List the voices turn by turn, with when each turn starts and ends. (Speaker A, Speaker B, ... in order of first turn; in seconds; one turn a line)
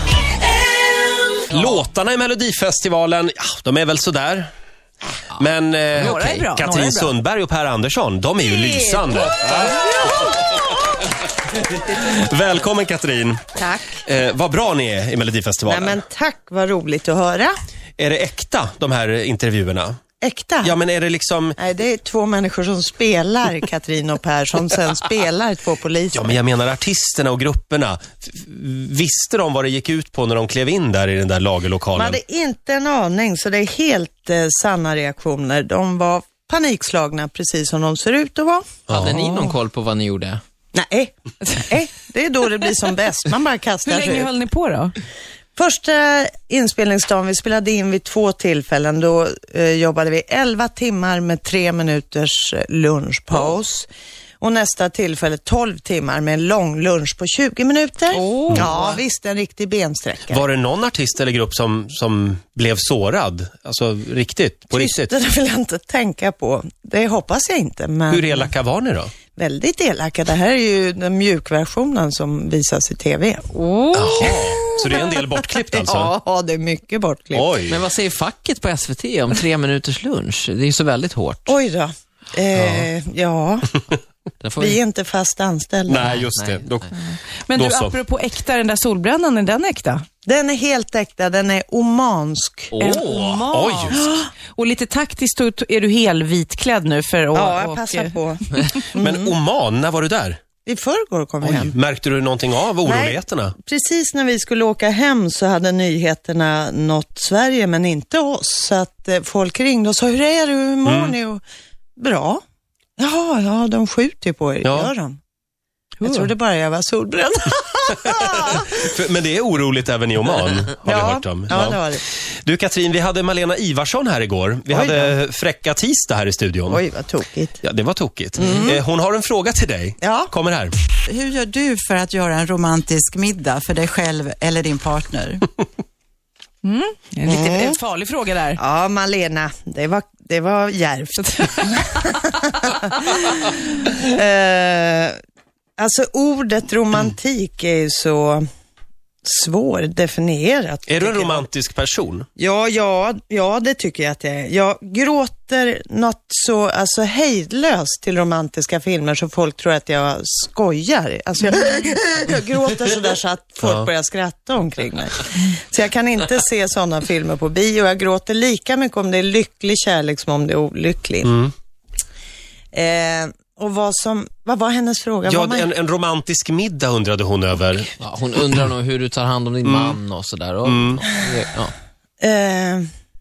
Speaker A: 1.5-4.5
Speaker A: 5.4-9.7
Speaker B: 6.0-7.1
Speaker C: 6.0-6.4
Speaker D: 8.4-10.3
Speaker B: 9.4-10.2
Speaker A: 11.4-13.5
Speaker D: 13.6-14.0
Speaker A: 14.0-16.0
Speaker D: 15.7-17.5
Speaker A: 18.0-20.0
Speaker D: 20.2-20.8
Speaker A: 20.6-21.6
Speaker D: 21.6-26.4
Speaker A: 26.1-32.2
Speaker D: 31.9-38.6
Speaker A: 38.9-39.2
Speaker C: 38.9-40.4
Speaker D: 40.7-44.3
Speaker B: 43.8-45.0
Speaker D: 45.5-53.9
Speaker D: 54.4-60.4
Speaker B: 58.1-59.0
Speaker A: 60.3-65.1
Speaker D: 64.7-68.5
Speaker A: 68.1-69.1
Speaker D: 69.3-75.2
Speaker B: 73.5-74.3
Speaker A: 73.9-76.1
Speaker D: 75.8-77.5
Speaker A: 77.3-77.8
Speaker C: 77.7-81.5
Speaker D: 81.5-83.8
Speaker C: 82.5-82.9
Speaker C: 84.4-84.8
Speaker D: 84.6-86.1
Speaker A: 85.9-86.9
Speaker C: 86.0-86.8
Speaker B: 87.4-90.0
Speaker A: 87.5-88.0
Speaker D: 90.2-92.7
Speaker C: 92.7-93.4
Speaker B: 92.8-98.7
Speaker A: 93.5-94.1
Speaker D: 93.9-94.3
Speaker D: 97.3-99.3
Speaker A: 98.9-100.4
Speaker D: 100.6-101.7
Speaker A: 101.4-103.5
Speaker D: 102.8-111.4
Speaker A: 110.8-111.1
Speaker D: 112.0-112.4
Speaker D: 113.0-115.2
Speaker A: 114.6-114.9
Speaker B: 116.0-116.3
Speaker D: 116.0-118.7
Speaker A: 118.1-126.8
Speaker D: 120.8-122.0
Speaker D: 124.7-125.1
Speaker D: 126.7-127.6
Speaker A: 127.6-130.7
Speaker D: 128.4-128.8
Speaker D: 130.0-130.3
Speaker E: 131.1-135.4
Speaker B: 136.6-138.6
Speaker D: 137.2-137.8
Speaker D: 138.6-145.2
Speaker D: 145.8-148.4
Speaker D: 149.2-151.5
Speaker A: 150.9-152.3
Speaker D: 152.4-171.3
Speaker A: 171.2-171.5
Speaker D: 172.7-175.7
Speaker A: 175.2-178.4
Speaker C: 178.0-181.7
Speaker A: 179.6-180.0
Speaker A: 180.6-181.0
Speaker D: 182.2-182.8